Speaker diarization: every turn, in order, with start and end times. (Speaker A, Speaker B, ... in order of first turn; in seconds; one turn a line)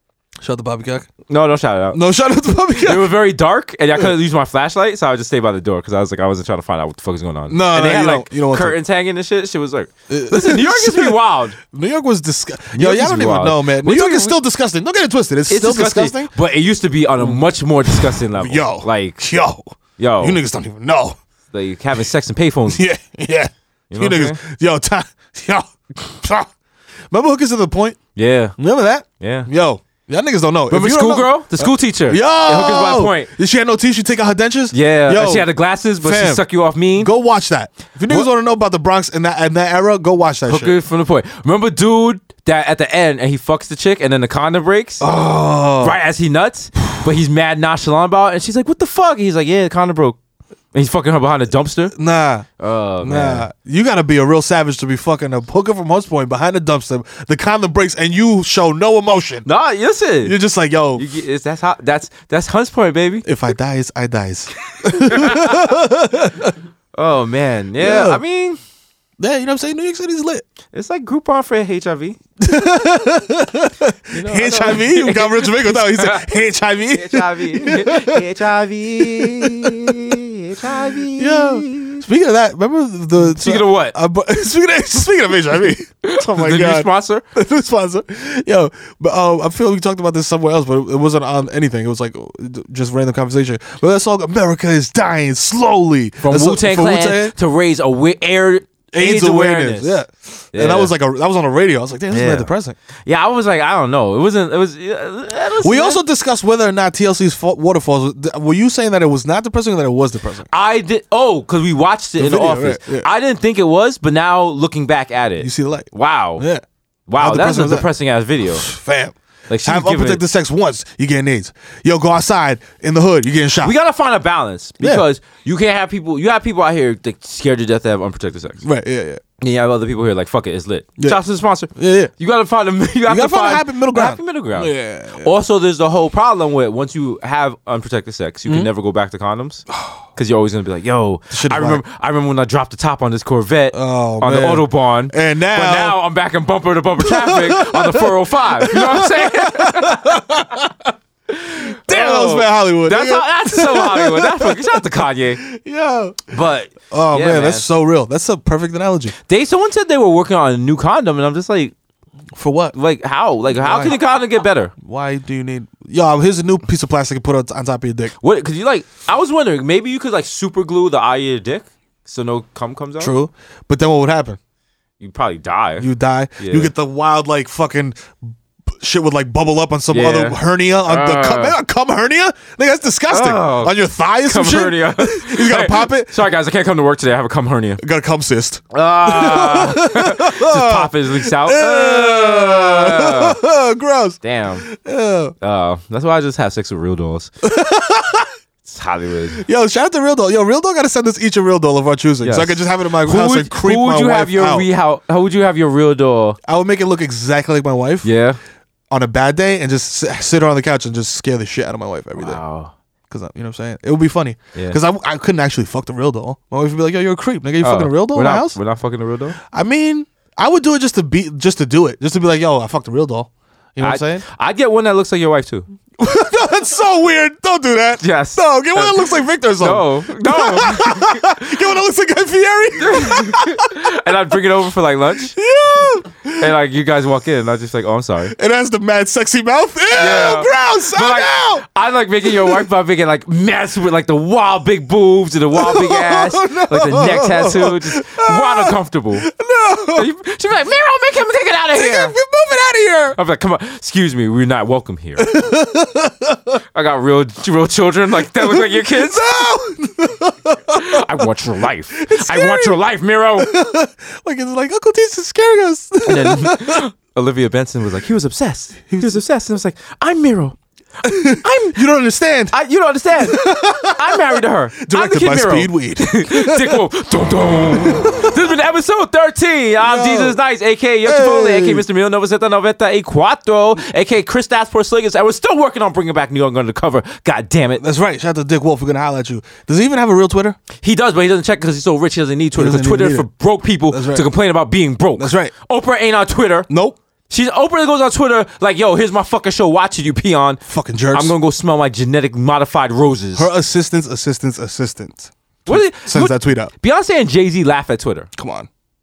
Speaker A: 0.4-1.1
Speaker B: 1.3-2.0
Speaker A: 1.9-3.2
Speaker B: 2.8-11.6
Speaker A: 7.5-8.8
Speaker A: 10.1-16.3
Speaker B: 12.7-14.3
Speaker B: 15.5-19.2
Speaker A: 17.2-21.2
Speaker B: 20.0-20.4
Speaker B: 21.5-22.8
Speaker A: 22.7-26.5
Speaker B: 23.9-24.4
Speaker A: 27.1-28.0
Speaker B: 28.1-28.6
Speaker A: 28.6-36.4
Speaker B: 29.2-29.5
Speaker B: 30.7-33.3
Speaker B: 34.7-37.1
Speaker A: 36.9-40.8
Speaker B: 40.5-45.0
Speaker A: 45.0-46.0
Speaker B: 45.8-50.2
Speaker B: 50.7-51.9
Speaker A: 51.9-52.5
Speaker B: 52.6-53.5
Speaker A: 53.0-59.5
Speaker B: 59.5-60.4
Speaker A: 60.2-61.1
Speaker B: 61.0-63.2
Speaker A: 63.2-66.5
Speaker B: 64.8-65.8
Speaker B: 66.9-68.6
Speaker A: 67.8-68.2
Speaker A: 69.2-70.4
Speaker B: 70.7-72.2
Speaker A: 72.4-78.2
Speaker B: 74.1-76.3
Speaker B: 76.9-82.0
Speaker A: 79.0-80.0
Speaker A: 81.0-97.3
Speaker B: 83.2-84.0
Speaker B: 86.0-87.2
Speaker B: 96.2-99.9
Speaker A: 98.9-102.8
Speaker B: 100.5-100.9
Speaker B: 102.1-102.5
Speaker B: 103.0-106.0
Speaker A: 105.6-110.5
Speaker B: 110.5-116.4
Speaker A: 112.2-113.1
Speaker A: 115.4-116.6
Speaker B: 117.1-118.7
Speaker A: 117.2-117.9
Speaker A: 118.5-123.7
Speaker B: 119.5-120.2
Speaker B: 123.6-128.6
Speaker A: 128.6-129.2
Speaker B: 129.4-139.6
Speaker A: 131.7-132.1
Speaker A: 133.1-135.3
Speaker A: 139.7-140.0
Speaker B: 140.1-150.2
Speaker A: 141.3-141.8
Speaker A: 143.7-146.0
Speaker A: 147.0-150.9
Speaker B: 151.4-155.4
Speaker A: 151.6-156.3
Speaker B: 156.3-157.7
Speaker A: 156.9-159.1
Speaker B: 159.2-161.7
Speaker A: 162.3-162.7
Speaker B: 162.7-164.7
Speaker A: 163.6-164.0
Speaker A: 164.8-168.1
Speaker B: 168.2-173.1
Speaker A: 173.0-174.4
Speaker B: 175.0-175.9
Speaker A: 175.8-178.2
Speaker B: 176.4-176.7
Speaker A: 178.8-186.2
Speaker B: 179.9-181.6
Speaker B: 183.1-187.8
Speaker A: 187.8-195.3
Speaker B: 188.7-193.4
Speaker B: 194.2-194.6
Speaker B: 195.4-197.3
Speaker A: 197.4-198.3
Speaker B: 198.6-199.4
Speaker A: 199.3-204.7
Speaker B: 202.2-206.4
Speaker A: 206.4-208.1
Speaker B: 208.0-208.4
Speaker A: 208.9-212.4
Speaker B: 212.2-212.7
Speaker A: 213.1-218.6
Speaker B: 217.6-219.4
Speaker A: 219.5-224.2
Speaker B: 223.8-225.7
Speaker A: 226.0-233.9
Speaker B: 228.0-231.4
Speaker B: 232.8-235.3
Speaker A: 235.3-236.5
Speaker B: 236.4-238.3
Speaker A: 238.3-241.6
Speaker B: 239.9-249.3
Speaker A: 245.5-250.1
Speaker B: 249.9-252.1
Speaker A: 251.7-253.2
Speaker B: 253.1-255.3
Speaker A: 255.2-256.6
Speaker B: 256.7-259.3
Speaker A: 258.4-261.0
Speaker B: 260.7-263.5
Speaker A: 261.9-262.8
Speaker A: 263.4-266.8
Speaker B: 266.1-270.6
Speaker A: 268.9-269.2
Speaker A: 271.0-272.6
Speaker B: 271.4-271.8
Speaker B: 272.5-287.8
Speaker A: 273.2-276.8
Speaker A: 277.7-278.3
Speaker A: 279.8-280.4
Speaker A: 281.0-281.8
Speaker A: 287.8-290.6
Speaker B: 290.8-296.7
Speaker A: 292.5-293.3
Speaker A: 293.9-294.3
Speaker A: 295.2-295.5
Speaker A: 296.7-297.0
Speaker B: 297.3-300.6
Speaker A: 300.7-301.3
Speaker B: 301.1-303.5
Speaker A: 303.3-306.7
Speaker B: 305.7-308.3
Speaker A: 308.4-308.7